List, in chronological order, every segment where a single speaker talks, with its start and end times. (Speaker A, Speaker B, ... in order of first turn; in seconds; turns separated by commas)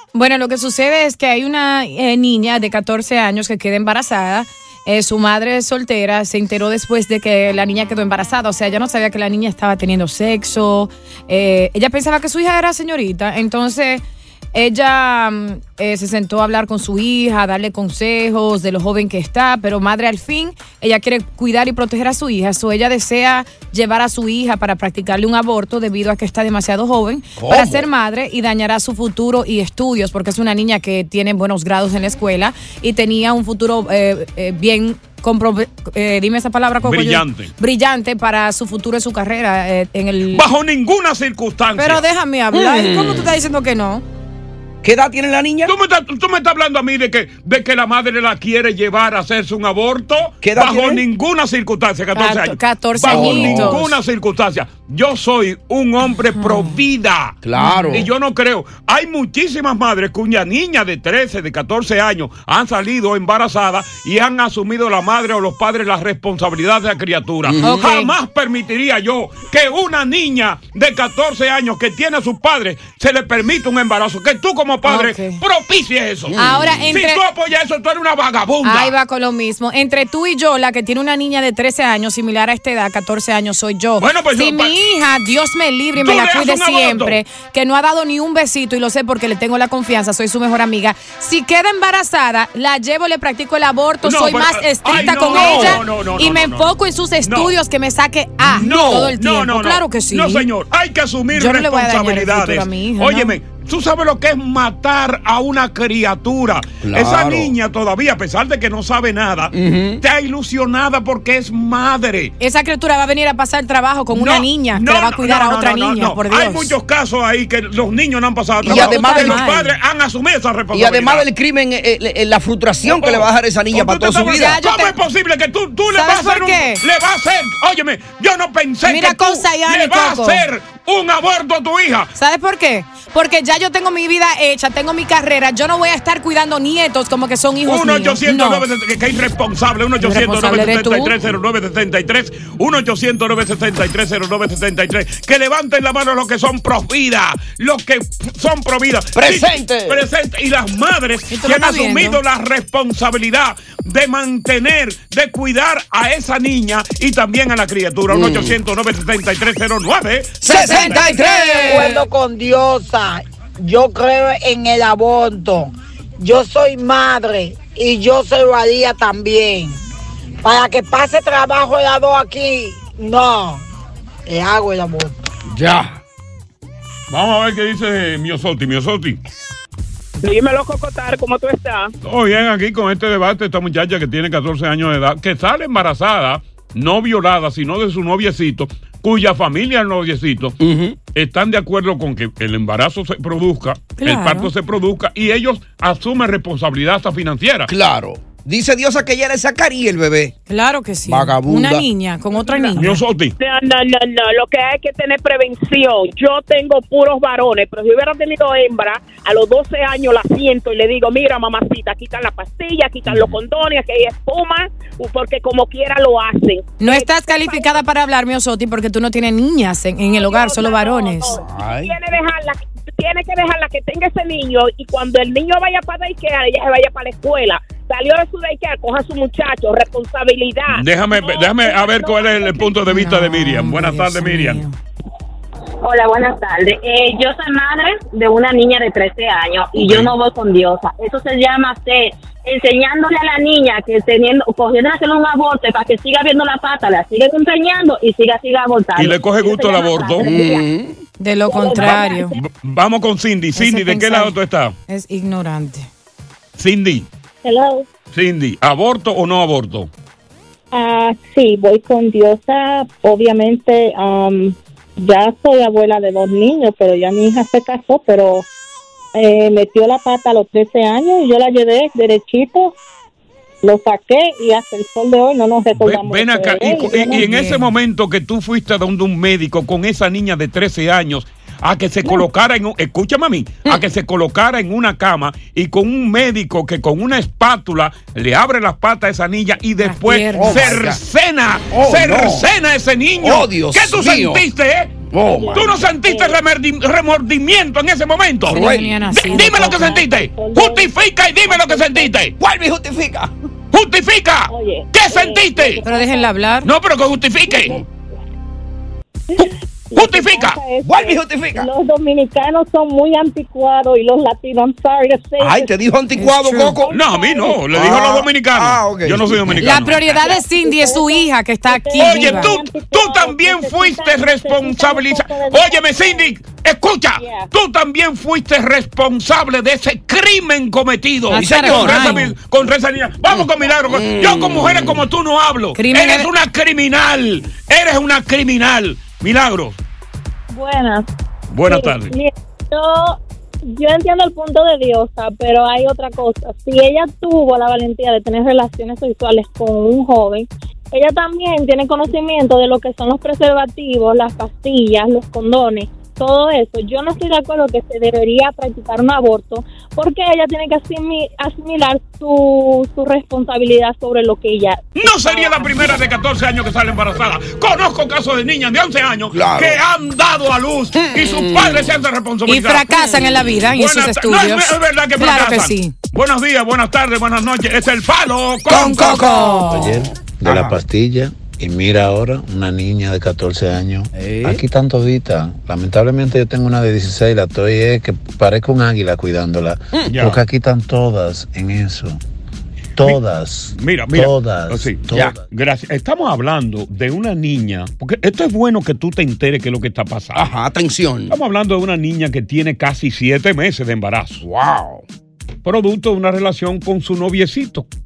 Speaker A: 0.1-14.0, Speaker A: 14.5-40.4, Speaker B: 27.4-27.9, Speaker C: 36.8-37.5, Speaker C: 40.3-42.0, Speaker A: 41.8-44.0, Speaker B: 42.5-43.3, Speaker B: 44.8-45.7, Speaker C: 45.6-57.4, Speaker B: 50.4-51.0, Speaker A: 52.1-53.9, Speaker B: 53.0-53.8, Speaker A: 56.4-56.8, Speaker B: 57.4-58.1, Speaker A: 57.6-58.0, Speaker C: 57.9-76.4, Speaker B: 67.5-67.8, Speaker A: 67.6-68.1, Speaker A: 74.8-75.4, Speaker B: 76.3-76.8, Speaker A: 76.4-77.2, Speaker C: 76.9-78.9, Speaker A: 78.6-100.5, Speaker C: 84.0-84.7, Speaker C: 86.0-87.2, Speaker C: 94.0-96.7, Speaker B: 95.0-95.8, Speaker C: 97.2-97.5, Speaker B: 98.4-99.1, Speaker C: 98.6-112.3, Speaker A: 101.3-103.3, Speaker B: 106.8-107.5, Speaker B: 109.5-110.0, Speaker A: 112.4-116.7, Speaker C: 114.1-121.2, Speaker A: 118.6-119.7, Speaker B: 118.6-119.4, Speaker B: 120.7-124.6, Speaker C: 122.8-132.1, Speaker A: 124.1-124.9, Speaker A: 125.9-126.8, Speaker A: 128.8-130.4, Speaker A: 132.1-138.6, Speaker C: 137.7-161.1, Speaker A: 140.0-141.1, Speaker B: 149.2-150.0, Speaker A: 151.3-152.2, Speaker B: 158.1-158.5, Speaker A: 160.4-162.0, Speaker B: 160.4-162.0, Speaker D: 161.6-169.8, Speaker D: 170.4-173.6, Speaker D: 174.2-175.2, Speaker B: 175.5-176.0, Speaker C: 177.1-179.2, Speaker E: 180.2-181.9, Speaker C: 182.0-190.6, Speaker B: 190.6-190.9, Speaker C: 191.1-197.7, Speaker A: 194.0-194.5, Speaker B: 197.7-200.3, Speaker A: 200.5-203.0, Speaker B: 201.1-201.9, Speaker C: 202.8-203.3, Speaker E: 203.4-217.8, Speaker A: 216.8-221.4, Speaker E: 220.1-230.9, Speaker B: 221.4-221.9, Speaker C: 230.7-234.6, Speaker F: 231.1-232.7, Speaker A: 232.9-234.7, Speaker G: 235.8-250.5, Speaker C: 239.7-240.1, Speaker C: 248.9-250.5, Speaker B: 250.2-250.9, Speaker A: 251.2-252.3, Speaker G: 251.5-252.1, Speaker C: 251.8-254.7, Speaker F: 251.9-252.2, Speaker A: 253.6-254.3, Speaker A: 254.9-255.9, Speaker C: 256.6-257.1, Speaker F: 257.4-257.9, Speaker C: 258.1-259.9, Speaker F: 260.7-268.4, Speaker F: 269.1-272.7, Speaker F: 273.6-277.2, Speaker C: 275.8-295.0, Speaker A: 277.1-277.7, Speaker A: 289.8-290.7, Speaker B: 290.4-291.0, Speaker B: 291.7-292.4, Speaker B: 293.2-294.4, Speaker B: 295.1-295.8, Speaker F: 295.3-296.4, Speaker C: 295.5-302.3, Speaker B: 298.5-298.9, Speaker A: 298.5-299.8, Speaker F: 299.3-300.9, Speaker F: 301.4-302.1, Speaker B: 302.4-303.3, Speaker C: 303.7-305.8, Speaker F: 304.5-306.3, Speaker A: 305.8-306.7, Speaker C: 306.6-307.8, Speaker F: 309.3-315.7, Speaker C: 309.4-310.6, Speaker B: 310.8-311.7, Speaker B: 315.4-316.9, Speaker A: 316.2-316.8, Speaker F: 316.9-317.6, Speaker C: 316.9-320.2, Speaker B: 317.7-319.7, Speaker A: 319.6-322.6, Speaker F: 320.0-326.3, Speaker C: 321.9-339.8, Speaker F: 327.2-327.4, Speaker B: 331.3-332.2, Speaker A: 331.3-332.3, Speaker B: 333.3-335.0, Speaker A: 335.7-336.3, Speaker F: 340.5-341.1, Speaker C: 341.5-342.1, Speaker F: 341.6-365.9, Speaker C: 365.0-373.1, Speaker B: 369.3-369.8, Speaker B: 370.9-371.9, Speaker A: 372.4-375.9, Speaker C: 373.7-379.3, Speaker B: 378.7-380.8, Speaker A: 378.7-379.9, Speaker H: 379.7-392.2, Speaker B: 384.1-384.6, Speaker C: 390.1-390.4, Speaker H: 392.9-395.4, Speaker C: 393.8-400.5, Speaker B: 400.3-401.3, Speaker C: 401.3-404.4, Speaker B: 404.4-405.0, Speaker C: 405.6-407.9